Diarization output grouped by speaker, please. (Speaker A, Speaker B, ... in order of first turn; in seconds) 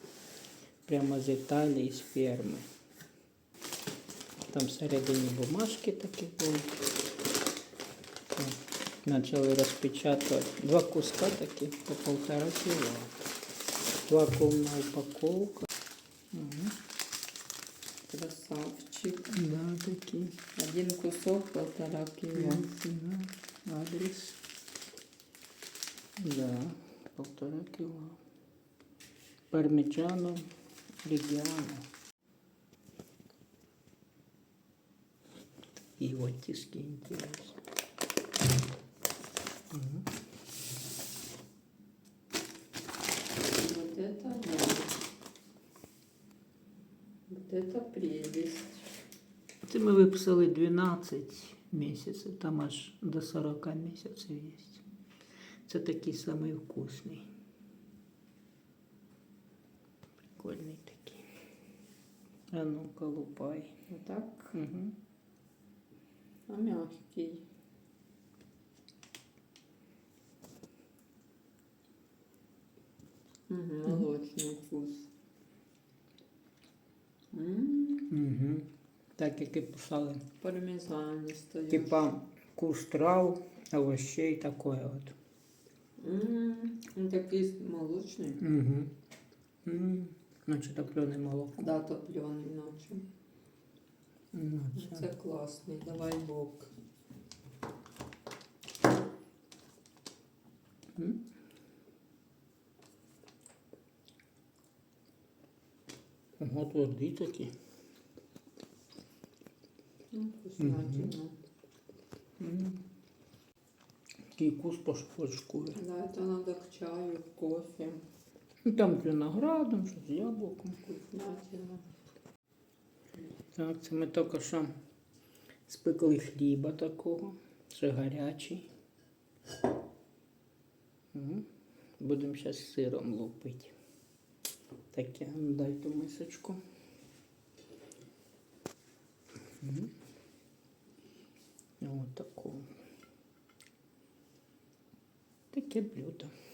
Speaker A: 0.9-2.7, 4.5-6.8, 8.4-13.2, 14.1-15.7, 16.3-16.8, 19.3-20.4, 22.4-24.4, 26.2-28.2, 29.5-30.5, 31.0-31.9, 36.0-37.6, 39.7-40.0, 49.7-54.8, 55.7-57.3, 60.4-61.2, 62.5-63.8, 64.5-65.0, 78.1-80.2, 81.7-85.2, 88.4-88.9, 89.7-91.7, 94.3-95.1, 106.4-107.5, 110.6-111.1, 112.4-112.8, 114.3-115.8, 118.6-120.8, 123.5-124.7, 125.7-128.7, 131.1-131.5, 132.0-133.7, 134.9-136.6, 139.6-139.9, 141.8-142.7, 145.5-146.3
Speaker B: 18.1-19.4, 20.6-22.7, 43.5-45.0, 47.3-48.9, 63.9-64.5, 66.5-67.5, 73.5-75.1, 77.3-78.1, 80.4-82.0, 86.0-88.4, 91.6-93.1, 94.8-96.7, 110.1-111.3, 115.8-118.0, 120.8-121.9